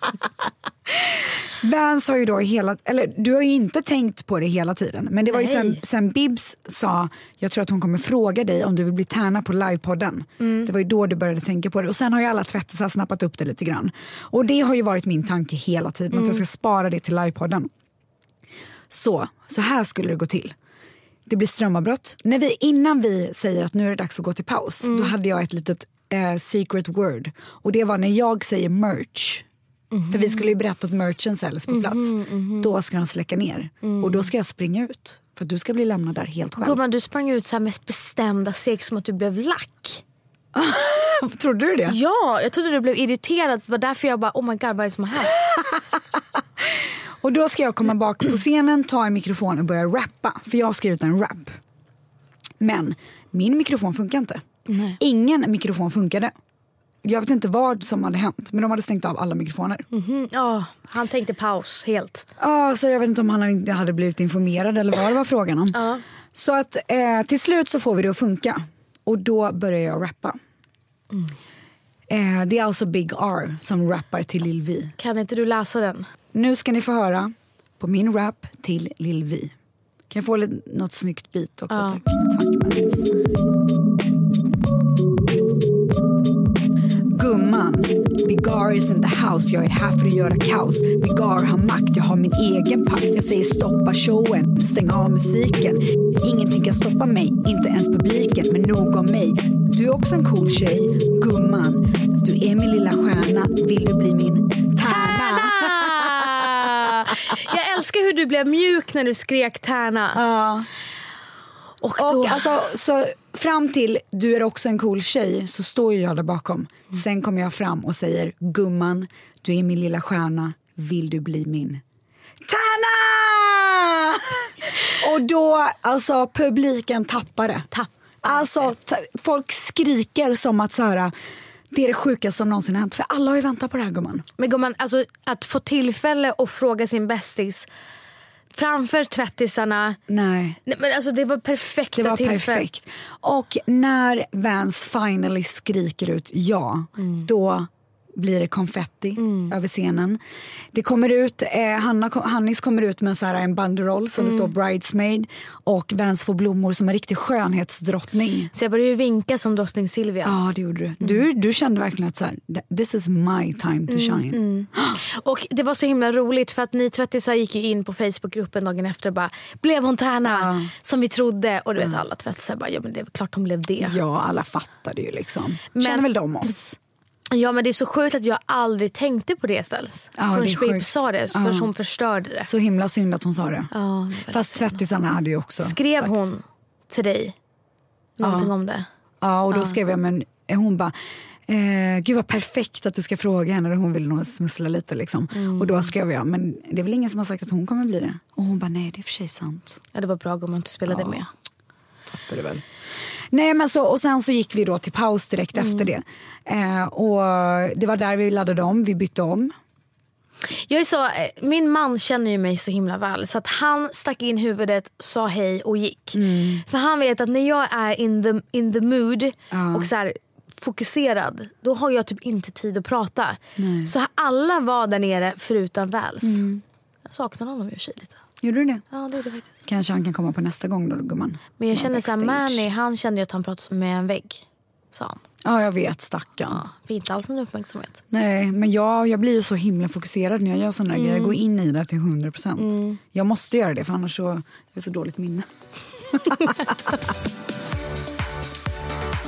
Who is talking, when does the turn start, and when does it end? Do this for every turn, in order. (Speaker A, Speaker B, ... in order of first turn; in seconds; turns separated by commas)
Speaker A: 0.9-17.7, Speaker B: 5.3-5.8, Speaker B: 10.4-10.7, Speaker B: 16.1-16.4, Speaker A: 18.9-20.5, Speaker A: 21.3-29.4, Speaker B: 24.8-25.1, Speaker B: 29.9-30.5, Speaker A: 30.1-36.8, Speaker B: 31.7-32.7, Speaker B: 33.8-34.3, Speaker B: 36.6-40.0, Speaker A: 40.5-42.0, Speaker B: 41.9-45.5, Speaker A: 46.7-51.6, Speaker A: 52.6-54.4, Speaker B: 54.7-55.0, Speaker A: 55.0-56.3, Speaker A: 57.0-59.9, Speaker B: 59.9-62.3, Speaker A: 62.4-65.8, Speaker B: 65.7-66.0, Speaker A: 66.3-70.4, Speaker A: 72.1-75.0, Speaker B: 75.0-76.1, Speaker A: 76.3-79.5, Speaker A: 80.1-83.1, Speaker B: 81.7-82.0, Speaker A: 87.1-107.1, Speaker B: 104.8-110.2, Speaker A: 110.1-110.7, Speaker B: 111.8-112.5, Speaker A: 112.0-121.8, Speaker A: 122.5-127.7, Speaker B: 127.7-128.7, Speaker A: 128.2-131.1, Speaker A: 131.7-134.2, Speaker B: 134.4-137.7, Speaker B: 138.5-140.0, Speaker A: 140.1-140.6, Speaker B: 140.7-142.7, Speaker A: 141.9-150.2, Speaker B: 147.0-147.3, Speaker B: 149.2-149.5, Speaker A: 150.7-158.5, Speaker B: 154.2-154.5, Speaker B: 158.5-160.4, Speaker A: 160.2-165.0, Speaker B: 163.9-174.0, Speaker A: 170.2-170.7, Speaker A: 173.8-176.8, Speaker B: 175.8-176.1, Speaker B: 177.3-182.5, Speaker A: 180.2-181.7, Speaker A: 182.4-183.7, Speaker B: 183.7-184.8, Speaker A: 184.3-186.1, Speaker B: 185.6-187.3, Speaker B: 188.2-188.9, Speaker A: 188.2-188.5, Speaker A: 189.2-190.9, Speaker A: 191.5-199.8, Speaker B: 195.3-195.9, Speaker B: 199.9-201.3, Speaker A: 200.9-201.2, Speaker A: 202.1-202.6, Speaker A: 203.3-209.5, Speaker B: 205.6-205.9, Speaker B: 210.5-226.4, Speaker A: 216.1-216.6, Speaker A: 219.5-219.9, Speaker A: 223.6-223.9, Speaker A: 226.2-226.6, Speaker B: 227.1-228.2, Speaker A: 228.4-228.8, Speaker B: 228.9-229.6, Speaker A: 229.7-232.7, Speaker B: 231.6-235.2, Speaker A: 235.4-236.6, Speaker B: 236.5-238.0, Speaker A: 238.1-245.5, Speaker B: 240.9-241.4, Speaker B: 242.6-243.0, Speaker A: 246.1-246.9